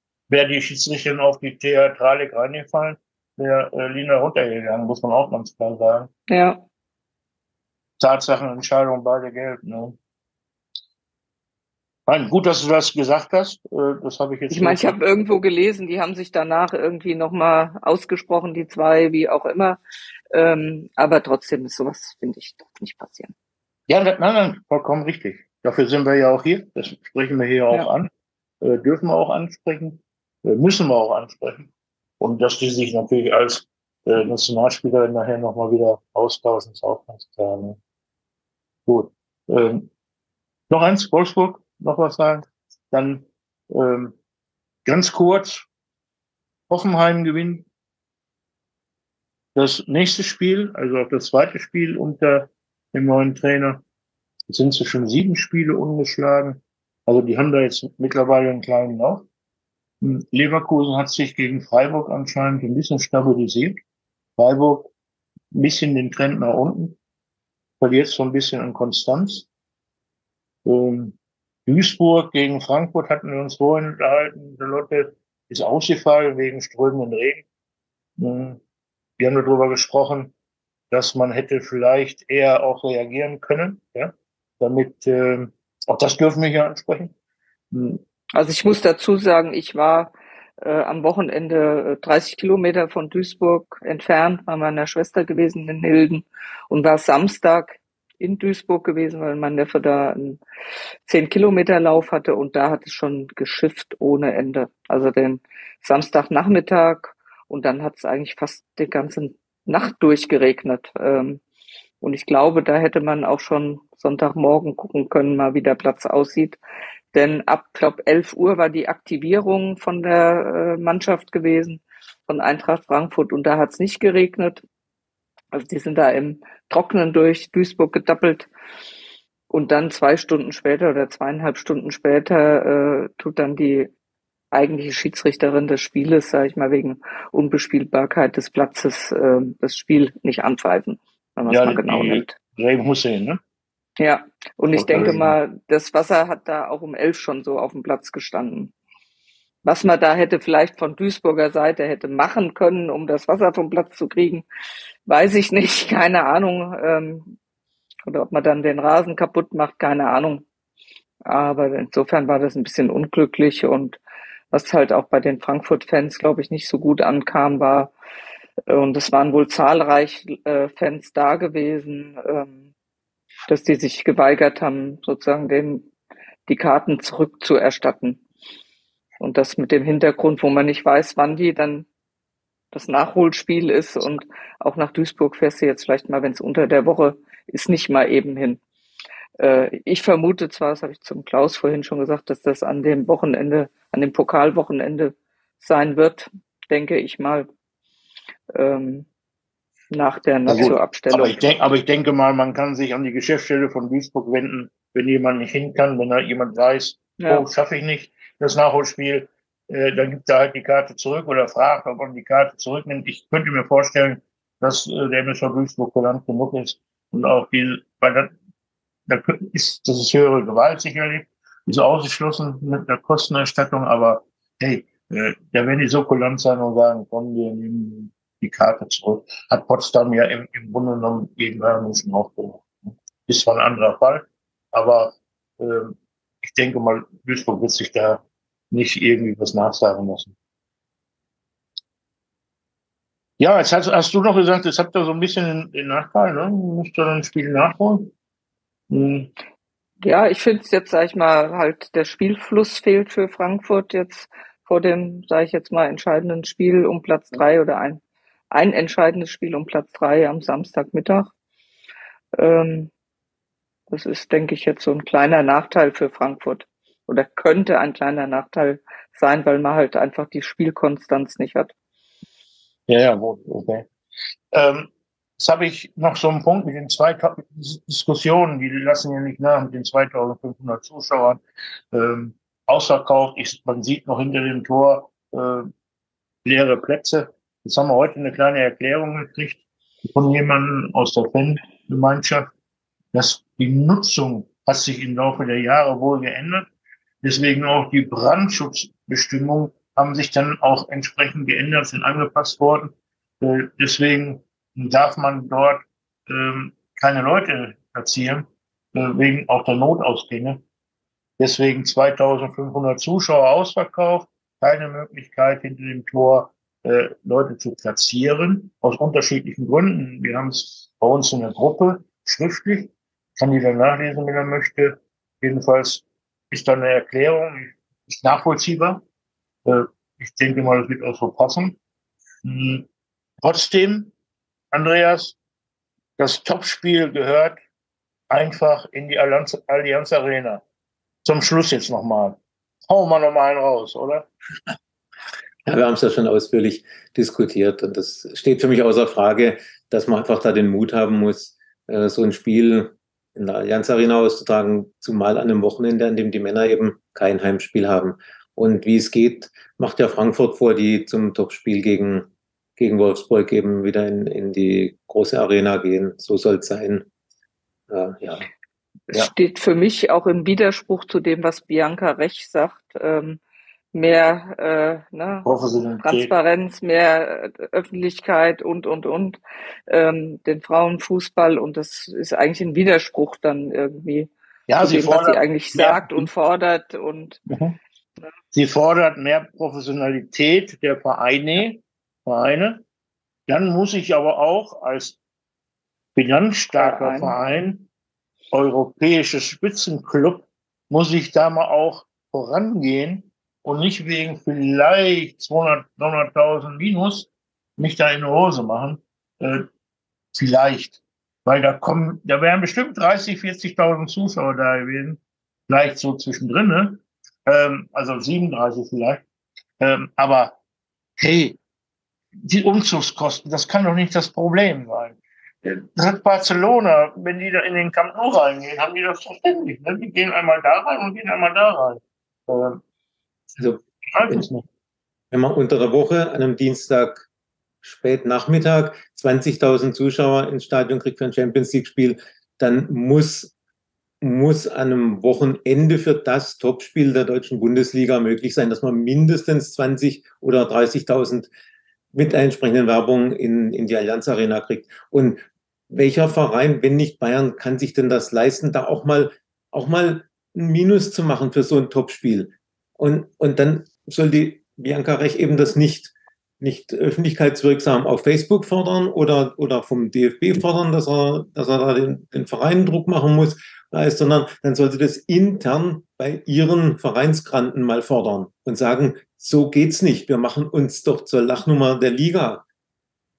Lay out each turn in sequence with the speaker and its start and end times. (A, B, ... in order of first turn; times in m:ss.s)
0:00.3-0:06.1 A
0:06.3-0:06.6 B
0:08.0-0:10.0 A
0:12.1-0:15.0 A
0:14.5-0:19.8 B
0:20.3-0:23.3 B
0:23.9-0:28.1 A
0:28.6-0:31.7 A
0:32.2-0:37.8 A
0:38.9-0:39.9 A
0:40.7-0:44.2 A
0:44.9-0:45.7 A
0:46.7-0:47.7 A
0:49.6-0:53.8 A
0:54.5-0:59.2 A
1:00.0-1:03.8 A
1:04.4-1:04.9 A
1:05.5-1:07.0 A
1:07.8-1:09.5 A
1:10.6-1:11.2 A
1:11.7-1:17.4 A
1:18.2-1:18.6 A
1:19.2-1:20.3 A
1:20.9-1:27.1 A
1:27.7-1:28.0 A
1:28.3-1:40.4 B
1:41.1-1:51.4 B
1:52.0-1:56.6 B
1:57.1-2:04.6 B
2:05.5-2:08.5 B
2:09.5-2:13.9 B
2:14.5-2:22.4 B
2:21.5-2:23.4 A
2:24.0-2:28.7 B
2:24.7-2:25.4 A
2:29.6-2:34.4 B
2:35.1-2:37.4 B
2:38.1-2:40.4 B
2:41.3-2:44.0 B
2:44.5-2:47.9 B
2:48.7-2:52.7 B
2:53.5-2:55.9 B
2:56.5-2:58.2 B
2:59.2-3:01.9 B
3:02.7-3:08.6 B
3:09.4-3:17.5 B
3:18.5-3:19.1 B
3:19.9-3:21.4 B
3:20.5-3:38.3 A
3:27.2-3:27.5 B
3:39.1-3:52.7 A
3:53.3-4:00.4 A
4:03.4-4:08.1 A
4:08.9-4:09.3 A
4:10.0-4:18.0 B
4:18.5-4:21.3 B
4:22.4-4:22.9 B
4:23.9-4:31.7 B
4:32.9-4:33.9 A
4:34.5-4:45.7 A
4:46.4-4:52.5 A
4:53.1-4:56.7 A
4:57.2-5:10.6 A
5:11.4-5:29.0 A
5:29.7-5:31.8 A
5:32.4-5:32.9 A
5:33.4-5:34.1 A
5:34.7-5:35.4 A
5:36.2-5:37.6 A
5:38.3-5:40.6 A
5:41.2-5:44.3 A
5:45.7-6:07.1 C
6:07.9-6:08.5 C
6:09.1-6:13.4 B
6:13.9-6:15.5 B
6:15.4-6:16.3 A
6:16.0-6:24.3 B
6:24.7-6:26.3 A
6:24.8-6:27.4 B
6:27.5-6:27.8 A
6:28.5-6:32.8 A
6:33.5-6:35.2 A
6:36.2-6:37.9 A
6:36.8-6:37.4 B
6:38.5-6:49.7 A
6:50.4-6:59.2 A
6:59.8-7:00.6 A
7:01.2-7:01.6 A
7:02.4-7:12.8 A
7:13.6-7:14.4 C
7:14.1-7:14.6 A
7:15.3-7:17.3 C
7:17.8-7:23.5 C
7:24.2-7:31.5 C
7:32.1-8:02.6 C